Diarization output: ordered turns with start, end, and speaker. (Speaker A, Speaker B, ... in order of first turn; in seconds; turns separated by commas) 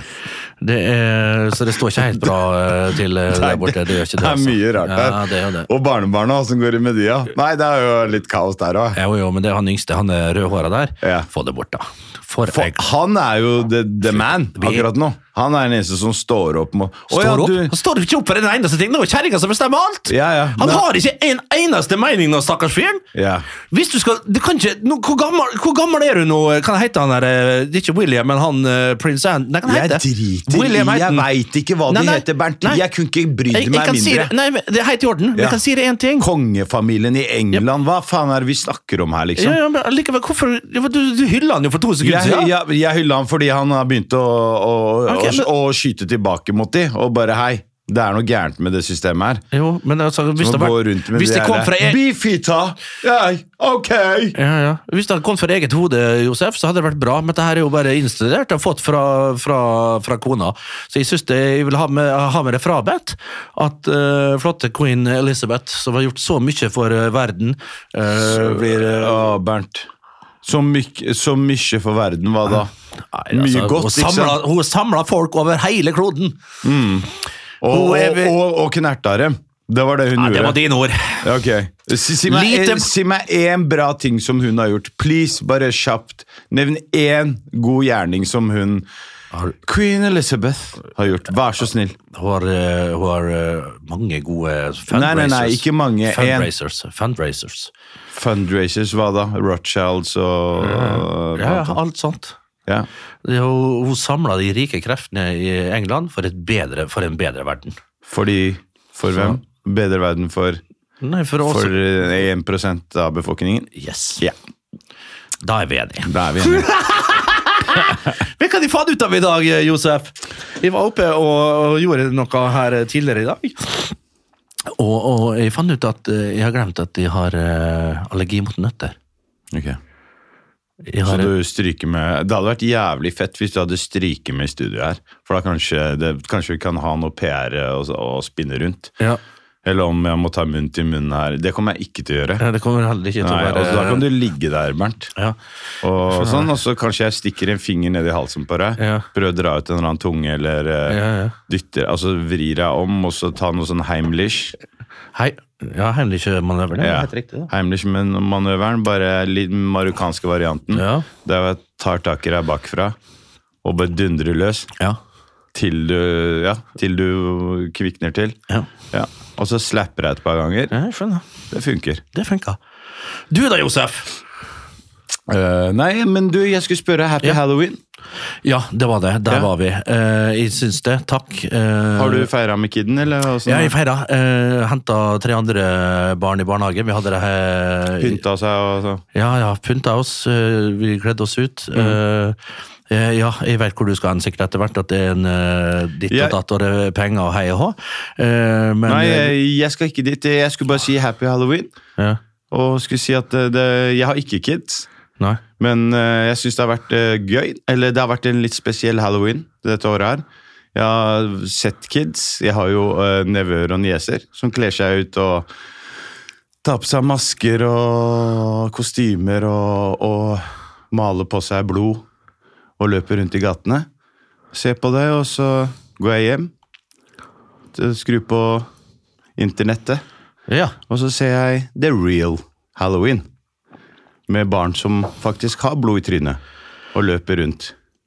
Speaker A: 0.6-5.7, Speaker B: 2.0-2.3, Speaker B: 3.3-9.0, Speaker A: 8.9-12.8, Speaker B: 11.0-11.3, Speaker B: 12.5-17.8, Speaker A: 14.6-14.9, Speaker A: 17.1-23.0, Speaker B: 20.1-20.9, Speaker B: 23.1-23.5, Speaker A: 23.6-31.3, Speaker B: 29.6-34.3, Speaker A: 31.9-32.8, Speaker A: 33.5-36.3, Speaker B: 35.4-35.6, Speaker B: 36.2-39.6, Speaker A: 39.4-42.5, Speaker B: 42.0-49.4, Speaker A: 45.1-45.5, Speaker A: 49.5-52.0, Speaker B: 50.4-54.4, Speaker A: 54.4-69.3, Speaker B: 68.1-69.9, Speaker B: 70.4-72.7, Speaker A: 73.1-76.4, Speaker B: 73.3-74.4, Speaker B: 76.6-77.1, Speaker B: 77.6-80.6, Speaker A: 77.7-78.4, Speaker A: 80.2-81.4, Speaker B: 81.2-88.9, Speaker A: 82.2-82.9, Speaker B: 89.6-92.0, Speaker A: 92.1-97.7, Speaker B: 94.9-96.5, Speaker B: 98.1-101.8, Speaker A: 100.6-102.4, Speaker A: 103.2-107.8, Speaker B: 108.1-110.6, Speaker A: 111.0-111.8, Speaker B: 111.4-114.3, Speaker A: 113.8-114.2, Speaker A: 115.4-124.0, Speaker B: 116.0-116.7, Speaker A: 124.7-129.0, Speaker B: 129.5-129.8, Speaker A: 130.9-131.3, Speaker B: 131.1-138.9, Speaker B: 139.6-142.4, Speaker A: 142.4-144.1, Speaker B: 143.2-145.1, Speaker B: 145.8-154.6, Speaker A: 146.1-146.5, Speaker A: 148.8-149.1, Speaker A: 150.9-151.4, Speaker A: 155.1-157.5, Speaker B: 156.8-163.0, Speaker A: 160.7-161.1, Speaker B: 163.6-164.7, Speaker B: 165.5-168.4, Speaker B: 168.9-170.7, Speaker A: 170.7-171.3, Speaker B: 171.5-172.0, Speaker A: 172.1-172.6, Speaker A: 173.3-174.2, Speaker B: 175.3-177.8, Speaker A: 178.4-182.3, Speaker B: 182.0-183.8, Speaker A: 183.5-188.2, Speaker B: 188.0-189.0, Speaker A: 189.1-192.4, Speaker A: 192.9-199.3, Speaker B: 196.1-196.4, Speaker B: 198.9-201.7, Speaker B: 202.5-204.9, Speaker B: 205.6-215.5, Speaker B: 216.6-222.1, Speaker B: 222.8-223.9, Speaker B: 224.5-226.5, Speaker B: 227.7-228.7, Speaker B: 229.4-230.0, Speaker A: 230.5-230.8, Speaker B: 230.9-233.2, Speaker B: 234.3-236.4, Speaker B: 236.9-237.8